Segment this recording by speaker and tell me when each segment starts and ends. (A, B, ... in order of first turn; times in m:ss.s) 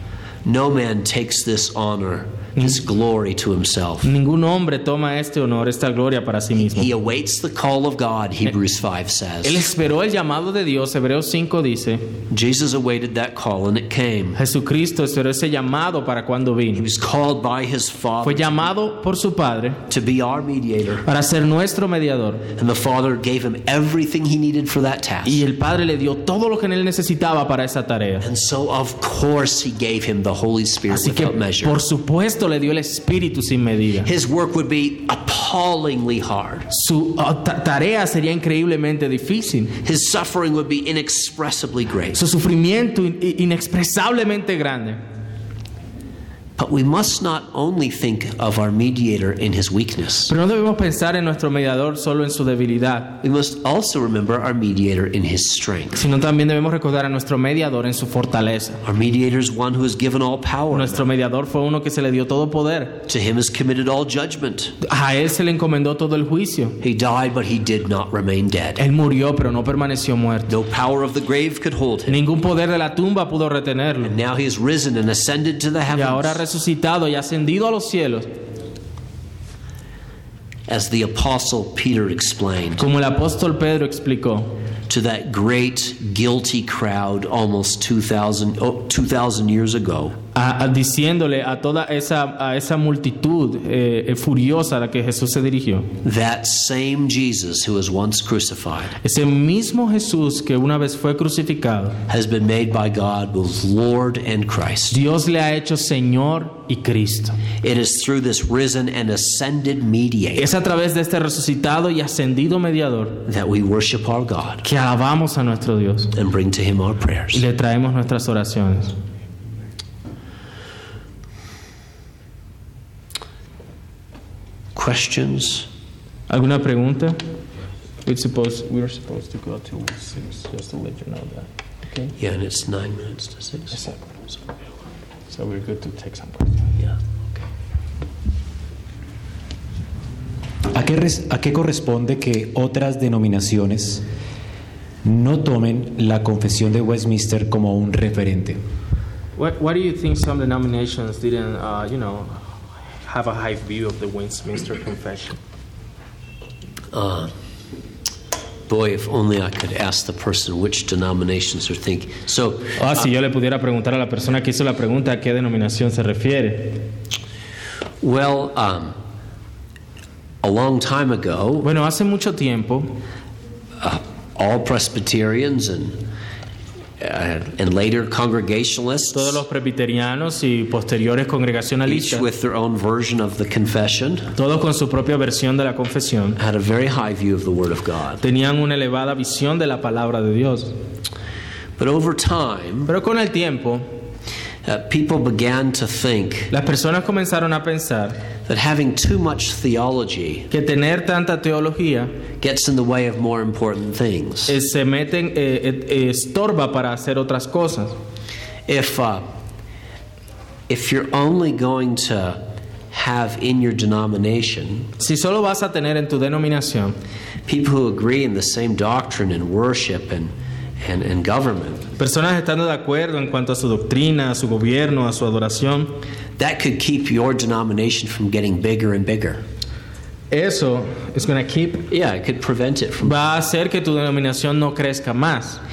0:00.4-0:04.1 A
0:04.0-0:06.9 B
0:06.6-0:09.6 A
0:09.4-0:12.1 B
0:12.3-0:14.4 A
0:14.4-0:16.8 B
0:16.7-0:18.7 A
0:18.2-0:19.8 B
0:19.9-0:21.1 A
0:21.1-0:22.5 B
0:22.5-0:25.4 A
0:25.2-0:28.2 B
0:28.2-0:31.8 A
0:30.9-0:34.1 B
0:34.0-0:36.7 A
0:36.7-0:39.8 B
0:39.8-0:42.2 A
0:42.1-0:45.0 B
0:46.6-0:50.4 A
0:50.3-0:53.2 B
0:53.2-0:56.0 A
0:56.0-0:58.8 B
0:58.8-1:01.1 A
1:00.7-1:03.0 B
1:03.1-1:04.8 A
1:04.8-1:06.8 B
1:06.8-1:08.8 A
1:08.8-1:10.5 B
1:10.5-1:12.2 A
1:12.1-1:14.1 B
1:14.0-1:16.4 A
1:15.9-1:18.3 B
1:20.7-1:22.8 A
1:22.8-1:24.6 B
1:24.9-1:30.2 A
1:30.4-1:35.9 B
1:36.0-1:39.0 A
1:39.0-1:42.0 B
1:42.1-1:45.0 A
1:44.9-1:47.4 B
1:47.6-1:50.5 A
1:50.4-1:53.2 B
1:53.2-1:54.7 A
1:54.6-1:56.1 B
1:56.1-1:57.4 A
1:57.3-1:59.0 B
2:04.7-2:05.7 A
2:06.3-2:07.2 B
2:08.0-2:12.1 B
2:12.2-2:13.8 A
2:13.7-2:14.2 B
2:15.3-2:16.9 B
2:20.7-2:24.0 C
2:25.0-2:28.6 C
2:29.4-2:32.4 B
2:33.0-2:35.4 B
2:36.9-2:37.3 A
2:38.7-2:43.1 A
2:42.8-2:46.9 B
2:48.0-2:49.0 A
2:50.4-2:51.7 A
2:51.6-2:52.9 B
2:53.8-2:56.0 A
2:57.0-2:59.4 A
2:59.1-3:02.3 B
3:01.9-3:04.3 A
3:04.4-3:06.4 B
3:06.4-3:08.2 A
3:08.2-3:10.7 B
3:11.8-3:12.9 A
3:12.9-3:13.9 B
3:14.6-3:16.5 A
3:16.5-3:18.2 B
3:18.5-3:20.5 A
3:20.5-3:22.1 B
3:22.4-3:24.6 A
3:24.5-3:28.0 B
3:28.7-3:29.2 A
3:30.7-3:34.9 A
3:35.0-3:37.0 B
3:37.4-3:41.9 A
3:42.0-3:46.0 B
3:46.4-3:49.4 A
3:50.3-3:51.9 B
3:51.9-3:53.2 A
3:53.0-3:55.6 B